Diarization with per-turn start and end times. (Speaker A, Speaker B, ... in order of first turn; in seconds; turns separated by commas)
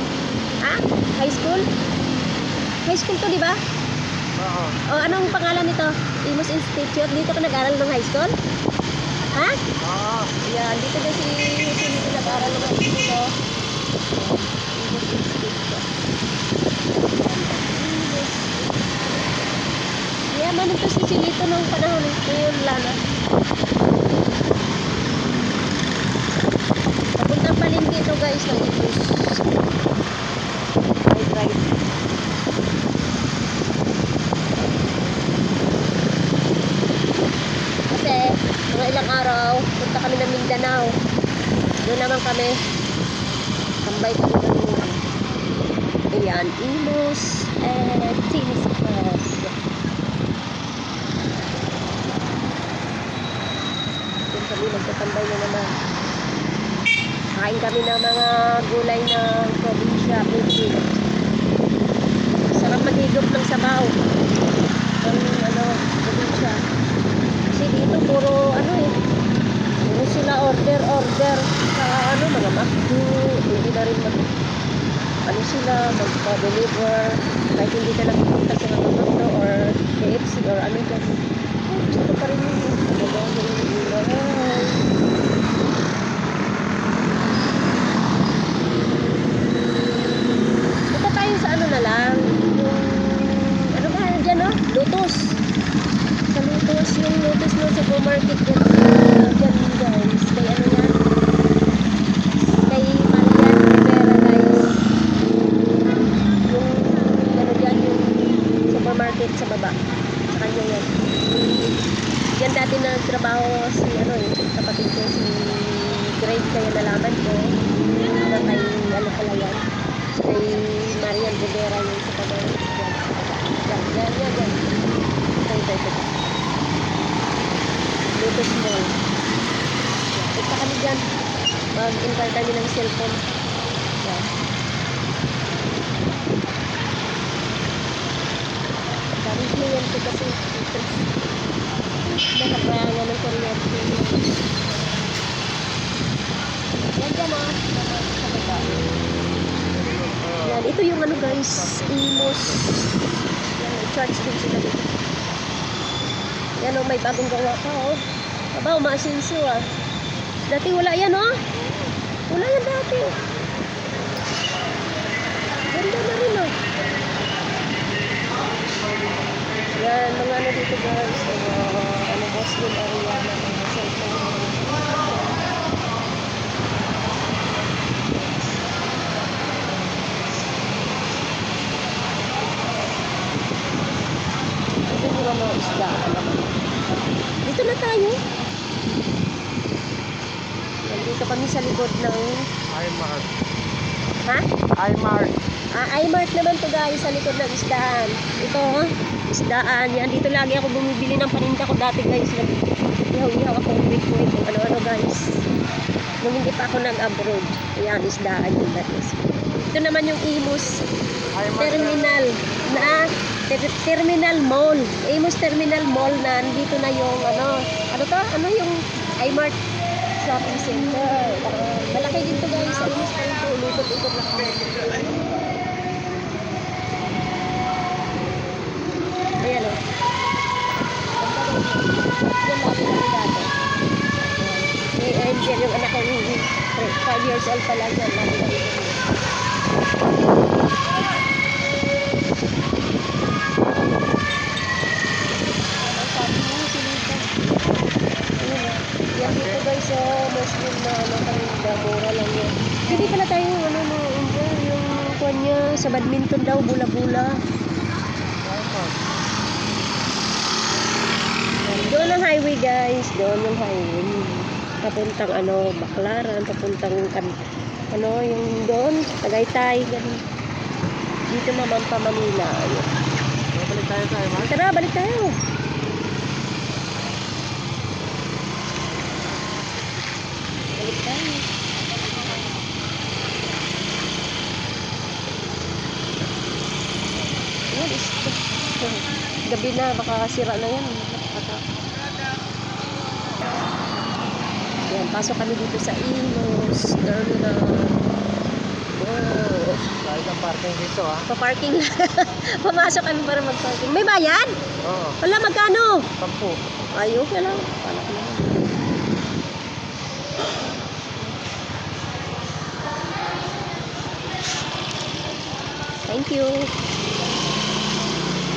Speaker A: 0.6-1.6, Speaker A: 2.9-3.6, Speaker B: 4.4-4.8, Speaker A: 4.9-8.3, Speaker B: 9.8-10.3, Speaker A: 10.4-13.3, Speaker A: 14.1-15.8, Speaker A: 16.9-19.1, Speaker A: 20.3-23.0, Speaker A: 27.2-29.5, Speaker A: 31.1-31.7, Speaker A: 37.9-40.9, Speaker A: 41.9-42.5, Speaker A: 43.8-45.0, Speaker A: 46.1-49.5, Speaker A: 54.3-55.8, Speaker A: 57.4-61.0, Speaker A: 62.5-64.0, Speaker A: 65.0-66.6, Speaker A: 67.5-68.9, Speaker A: 69.9-74.3, Speaker A: 75.3-81.1, Speaker A: 81.7-84.9, Speaker A: 90.9-95.4, Speaker A: 96.3-101.0, Speaker A: 102.7-104.7, Speaker A: 106.4-109.7, Speaker A: 110.3-110.9, Speaker A: 112.4-119.6, Speaker A: 120.1-124.7, Speaker A: 125.3-126.2, Speaker A: 128.1-128.9, Speaker A: 130.1-131.0, Speaker A: 131.8-133.2, Speaker A: 134.0-134.3, Speaker A: 139.2-140.9, Speaker A: 142.3-144.4, Speaker A: 146.9-148.7, Speaker B: 149.7-152.6, Speaker A: 150.4-152.7, Speaker A: 153.6-154.9, Speaker A: 156.6-158.0, Speaker A: 158.5-159.7, Speaker A: 160.5-161.4, Speaker A: 162.3-163.2, Speaker A: 165.7-166.5, Speaker A: 169.8-175.4, Speaker A: 184.9-186.6, Speaker A: 187.4-188.2, Speaker A: 190.9-192.3, Speaker B: 192.7-193.3, Speaker B: 194.8-195.3, Speaker A: 195.8-205.3, Speaker A: 206.2-210.8, Speaker B: 211.3-212.0, Speaker A: 211.6-219.6, Speaker A: 220.2-225.1, Speaker A: 229.4-229.8, Speaker A: 231.2-233.5, Speaker A: 234.2-239.0, Speaker A: 245.8-247.4, Speaker A: 248.4-257.4, Speaker B: 249.2-249.6, Speaker B: 258.4-259.0, Speaker A: 261.6-267.4, Speaker A: 267.9-270.2, Speaker A: 271.3-272.9, Speaker B: 273.5-274.5, Speaker A: 274.4-275.3, Speaker A: 280.8-281.4, Speaker A: 287.7-291.6, Speaker A: 294.9-298.0, Speaker B: 298.9-301.2, Speaker A: 301.3-304.5, Speaker B: 304.8-305.2, Speaker A: 305.2-306.1, Speaker B: 306.2-306.6, Speaker A: 306.9-308.7, Speaker A: 316.1-316.7